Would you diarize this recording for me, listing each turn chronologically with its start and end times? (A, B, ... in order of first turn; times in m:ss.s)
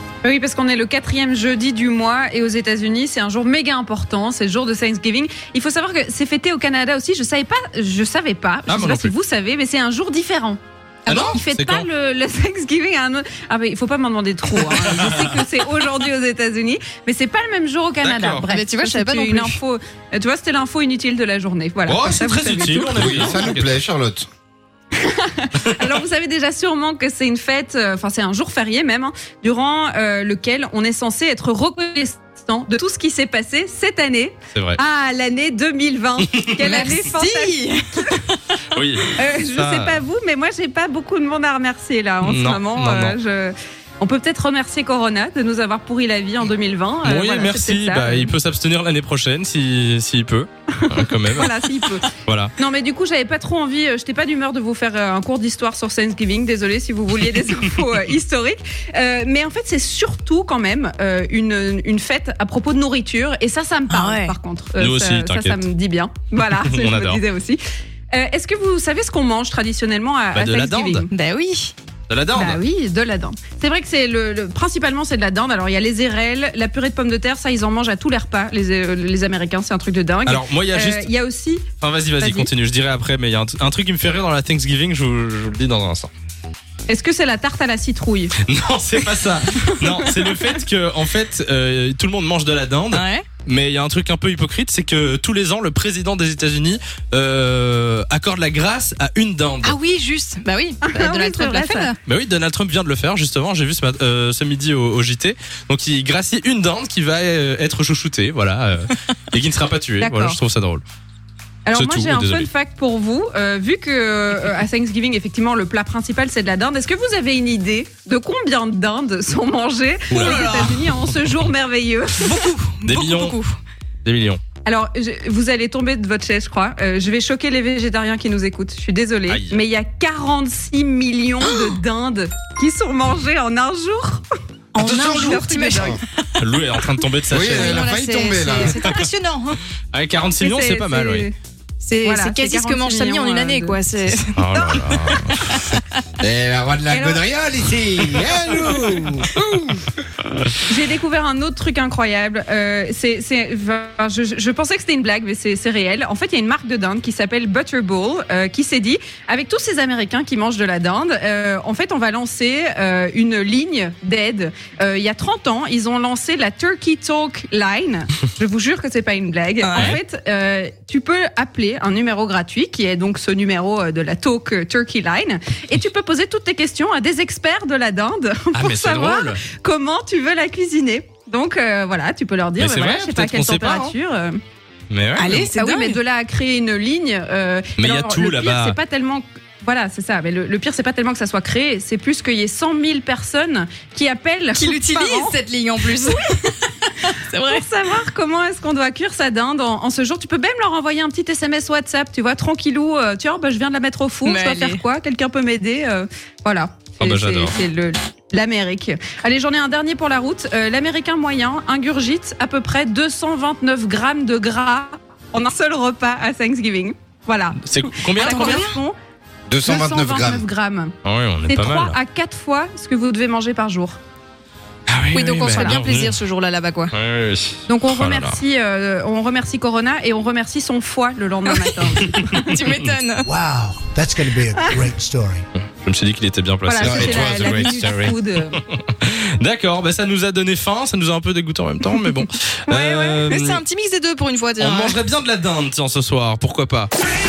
0:00.2-0:23.5 A
0:08.7-0:09.1 B
0:11.1-0:11.8 B
0:14.6-0:15.3 B
0:18.0-0:18.5 B
0:18.5-0:19.6 C
0:21.8-0:23.8 B
0:22.9-0:24.3 D
0:24.9-0:38.2 A
0:34.5-0:34.8 B
0:36.6-0:38.6 C
0:38.6-0:40.0 B
0:39.1-0:48.3 A
0:42.2-0:43.2 B
0:47.0-0:51.5 B
0:50.7-1:07.6 A
0:52.2-0:52.5 B
1:03.9-1:04.4 C
1:04.8-1:05.6 B
1:06.4-1:07.2 B
1:08.1-1:11.1 A
1:10.3-1:11.0 B
1:11.1-1:11.7 C
1:12.1-1:12.6 B
1:12.3-1:22.5 A
1:20.2-1:21.1 B
1:21.8-1:26.1 B
1:26.9-1:28.3 A
1:28.4-1:39.8 B
1:32.9-1:33.3 C
1:39.6-1:42.0 C
1:40.8-1:41.9 A
1:42.0-1:50.8 B
1:50.0-1:50.4 A
1:51.6-2:02.5 A
1:51.7-1:52.5 B
2:00.1-2:00.9 B
2:00.1-2:00.9 C
2:02.2-2:03.6 C
2:02.8-2:03.4 B
2:04.0-2:04.4 B
2:04.6-2:14.2 A
2:09.3-2:09.6 B
2:14.7-2:16.2 C
2:14.8-2:16.0 D
2:15.0-2:16.0 A
2:16.4-2:17.8 B
2:17.3-2:18.8 D
2:17.4-2:19.6 C
2:18.8-2:19.1 B
2:19.9-2:21.3 B
2:20.4-2:21.3 A
2:21.8-2:24.8 C
2:22.0-2:23.8 A
2:24.3-2:25.6 B
2:24.5-2:25.3 A
2:25.4-2:26.0 C
2:26.2-2:29.3 D
2:26.9-2:27.3 A
2:29.4-2:29.8 C
2:30.6-3:04.4 A
2:49.6-2:50.0 C
2:49.7-2:50.0 B
2:58.5-2:59.4 B
3:02.6-3:03.9 B
3:04.9-3:05.5 B
3:05.2-3:06.0 C
3:05.3-3:15.4 A
3:07.8-3:08.8 B
3:14.5-3:17.6 C
3:17.4-3:38.9 A
3:24.2-3:24.8 C
3:27.0-3:27.6 B
3:37.6-3:38.6 B
3:38.2-3:38.8 C
3:39.5-3:40.4 D
3:39.6-3:40.9 A
3:41.0-3:42.0 B
3:41.5-3:44.0 A
3:44.9-3:46.2 B
3:45.1-3:46.9 C
3:45.5-3:45.8 A
3:46.9-3:48.4 B
3:47.7-3:52.6 A
3:51.5-3:53.3 C
3:53.2-3:55.4 E
3:55.6-4:03.6 B
3:56.6-3:58.6 A
3:56.8-3:57.7 D
4:02.7-4:05.0 C
4:02.8-4:03.2 A
4:04.6-4:06.9 B